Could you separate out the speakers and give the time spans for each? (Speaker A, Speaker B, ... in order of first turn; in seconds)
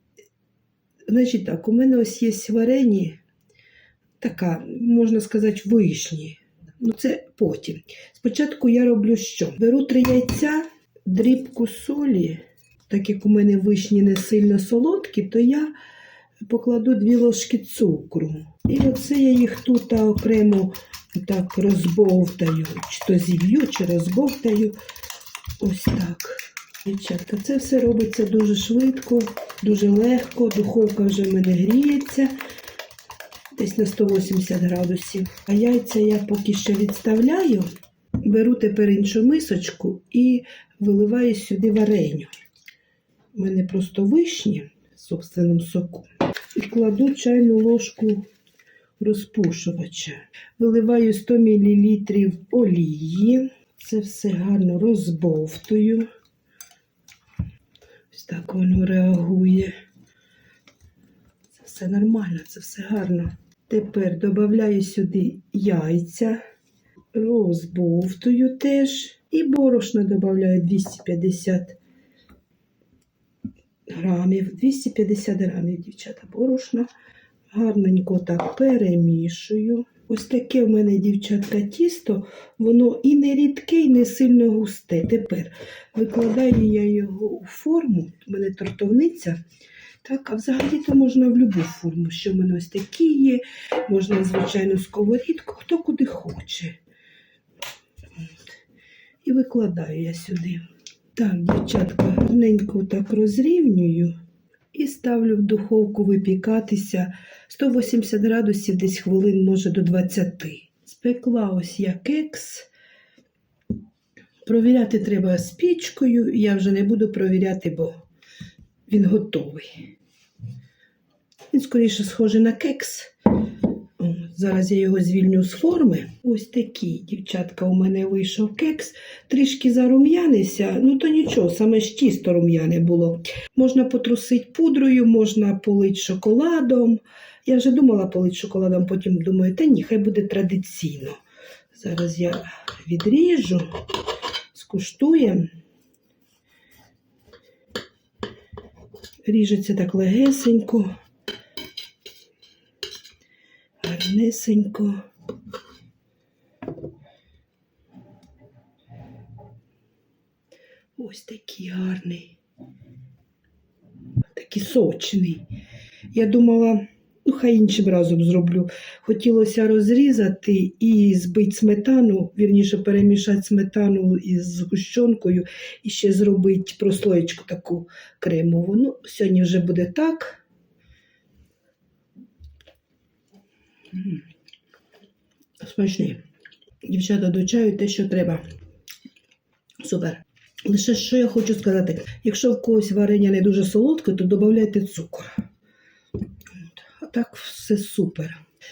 Speaker A: 1.1-3.2, 4.2-15.7, 16.5-24.7, 25.6-32.4, 33.5-37.7, 38.2-42.3, 43.3-48.2, 49.0-56.1, 58.1-59.7, 61.5-66.4, 67.1-71.8, 73.9-76.9, 77.5-89.4, 90.0-96.8, 98.2-98.5, 99.2-100.6, 101.1-104.1, 104.7-112.7, 114.5-117.9, 118.9-119.8, 121.5-123.1, 124.0-141.2, 141.7-143.7, 144.5-145.4, 149.2-150.9, 153.8-155.0, 160.9-162.3, 164.3-165.4, 166.1-180.4, 183.9-184.2, 185.6-186.2, 186.8-188.4, 189.8-195.4, 196.6-198.4